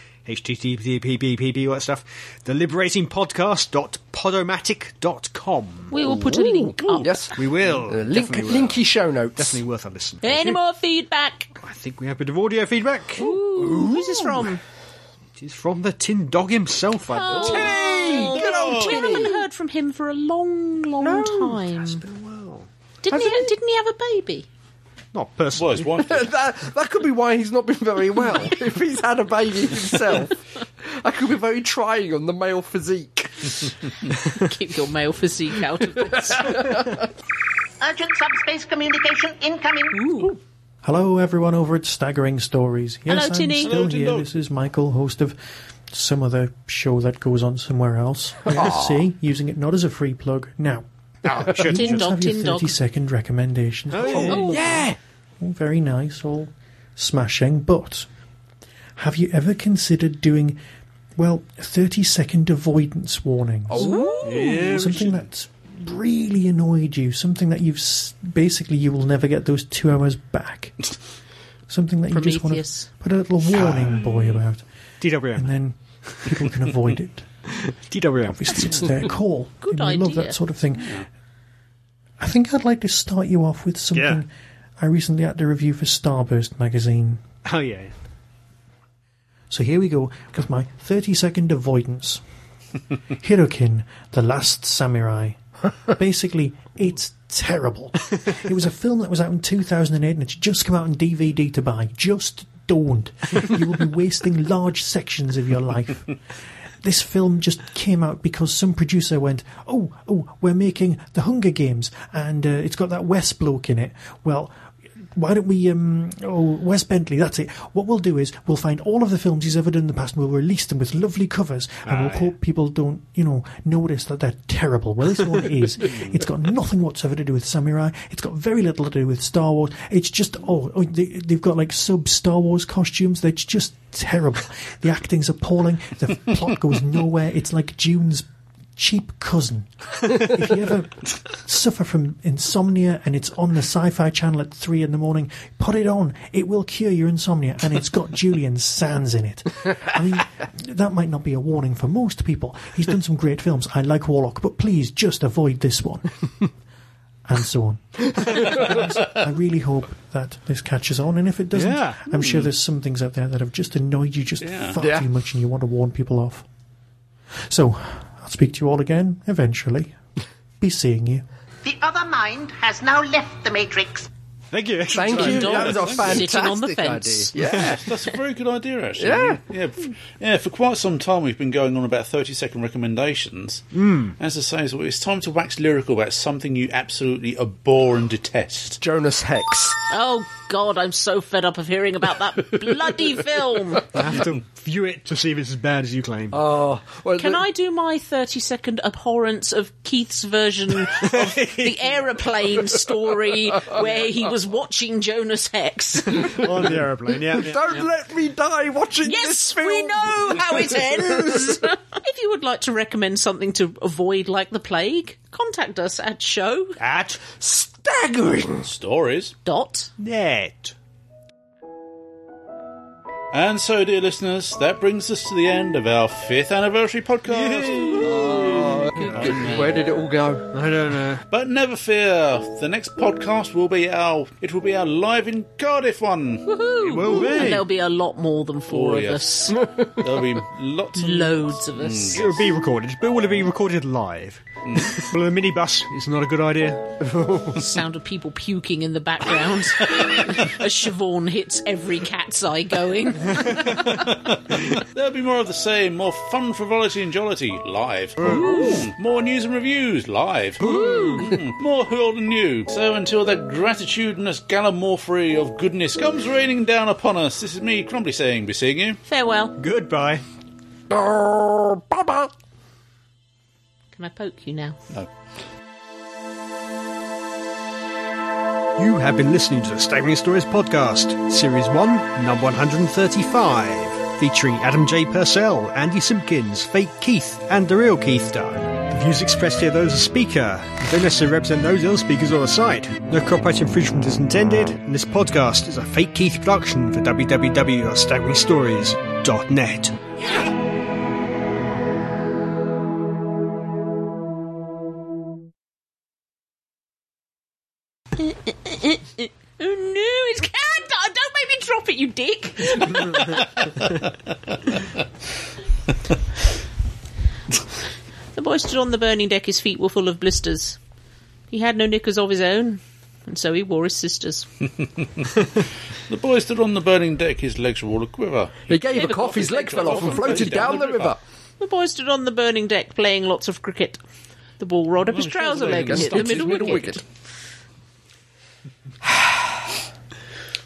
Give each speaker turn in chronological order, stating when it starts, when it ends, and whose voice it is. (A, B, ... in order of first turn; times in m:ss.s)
0:00.2-0:06.3 A
0:05.9-0:07.3 B
0:06.0-0:09.6 C
0:07.3-0:08.8 A
0:09.4-0:10.5 A
0:10.2-0:11.5 B
0:11.6-0:13.3 A
0:13.2-0:14.5 C
0:13.2-0:14.6 B
0:15.4-0:18.2 A
0:17.1-0:22.0 B
0:17.3-0:19.4 C
0:18.1-0:19.2 D
0:21.0-0:21.6 C
0:21.7-0:22.7 A
0:23.0-0:24.5 B
0:23.1-0:23.5 C
0:25.1-0:26.1 A
0:25.5-0:26.3 D
0:26.0-0:33.7 C
0:34.1-0:36.8 B
0:36.3-0:37.0 C
0:37.8-0:40.1 E
0:39.9-0:40.4 B
0:40.8-0:45.4 F
0:43.1-0:43.7 B
0:43.6-0:44.3 D
0:45.9-0:54.9 F
0:48.4-0:49.1 C
0:51.2-0:52.1 A
0:51.7-0:52.7 B
0:53.9-0:54.6 A
0:54.1-0:54.6 B
0:54.3-0:55.0 C
0:55.4-0:58.1 F
0:59.0-1:00.6 F
1:01.2-1:11.0 F
1:03.7-1:04.6 C
1:03.8-1:04.5 B
1:04.2-1:05.2 A
1:11.7-1:14.6 F
1:12.1-1:12.9 B
1:13.5-1:14.2 A
1:15.0-1:16.5 A
1:15.4-1:17.3 F
1:17.5-1:18.9 A
1:18.3-1:21.0 F
1:19.6-1:20.4 B
1:20.8-1:21.1 D
1:22.2-1:27.2 F
1:23.9-1:24.2 A
1:27.4-1:27.9 A
1:29.5-1:32.2 F
1:33.2-1:46.2 F
1:46.8-1:54.5 F
1:55.1-2:36.5 F
2:01.8-2:02.3 A
2:37.2-2:46.4 F
2:41.5-2:42.0 A
2:42.1-2:42.5 D
2:44.4-2:44.8 D
2:44.8-2:45.1 C
2:47.5-2:50.0 F
2:50.6-2:51.2 F
2:51.6-2:54.1 E
2:54.5-2:56.0 A
2:54.9-2:57.8 C
2:55.0-2:57.3 B
2:55.6-2:56.1 D
2:57.4-2:57.7 A
2:57.4-3:08.8 D
2:59.0-2:59.4 C
3:03.7-3:04.1 A
3:08.8-3:09.8 C
3:09.9-3:13.9 B
3:13.9-3:16.4 A
3:16.3-3:17.4 C
3:17.2-3:26.4 B
3:20.9-3:21.9 A
3:26.3-3:27.7 A
3:27.3-3:31.6 C
3:29.0-3:36.8 B
3:36.8-3:37.2 A
3:37.3-3:38.7 C
3:38.6-3:39.3 D
3:39.4-3:39.9 B
3:40.0-3:40.8 A
3:43.3-3:49.8 D
3:47.3-3:49.1 A
3:47.9-3:50.5 C
3:50.5-3:51.2 A
3:51.3-3:57.6 D
3:56.4-3:59.6 B
3:56.8-3:57.7 A
3:58.7-4:02.4 D
4:00.9-4:02.2 B
4:02.1-4:07.6 A
4:04.6-4:04.9 D
4:07.6-4:14.1 B
4:13.6-4:29.0 D
4:18.2-4:18.9 B
4:20.6-4:21.3 B
4:20.6-4:21.3 A
4:29.0-4:29.6 B
4:29.6-4:30.2 A
4:30.9-4:32.3 C
4:33.9-4:34.8 B
4:38.8-5:00.0 A
5:08.2-5:13.8 B
5:18.3-5:20.8 B
5:21.5-5:24.5 B
5:26.1-5:31.2 D
5:28.7-5:31.2 C
5:29.8-5:30.1 B
5:31.6-5:34.0 B
5:34.6-5:37.0 B
5:35.1-5:36.8 D
5:35.6-5:37.0 C
5:39.0-5:39.5 C